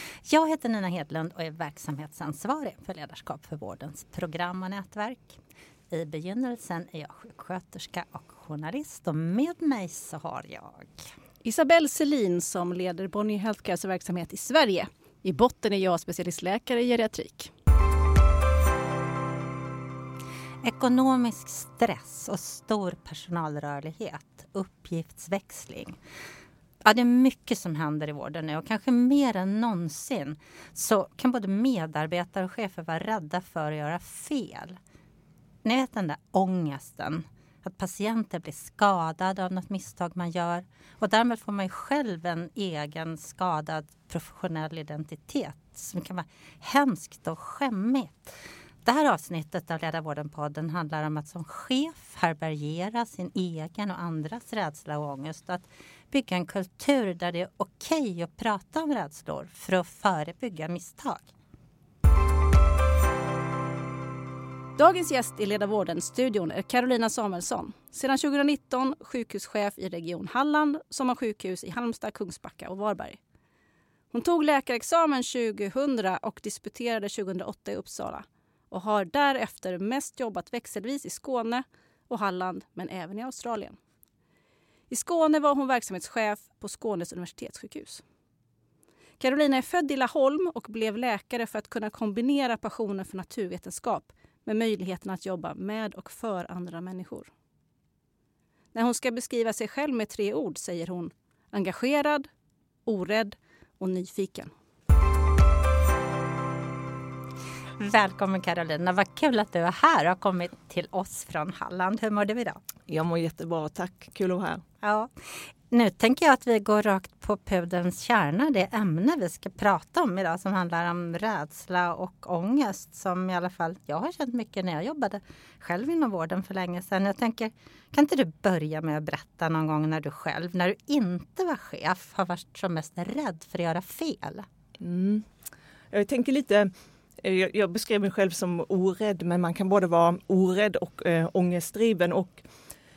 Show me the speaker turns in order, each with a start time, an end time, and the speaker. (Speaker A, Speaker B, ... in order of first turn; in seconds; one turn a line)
Speaker A: 0.2-5.4
Speaker A: 5.9-10.9
Speaker B: 11.4-17.5
Speaker A: 20.6-26.0
Speaker A: 26.8-34.8
Speaker A: 35.6-48.3
Speaker A: 48.9-61.3
Speaker B: 64.8-73.2
Speaker B: 74.1-83.8
Speaker B: 84.9-88.0
Speaker B: 89.2-97.3
Speaker B: 98.7-102.3
Speaker B: 102.9-104.5
Speaker A: 107.8-112.6
Speaker C: 112.9-114.6
Speaker A: 114.8-134.5
Speaker C: 134.8-135.3
Speaker C: 135.9-142.4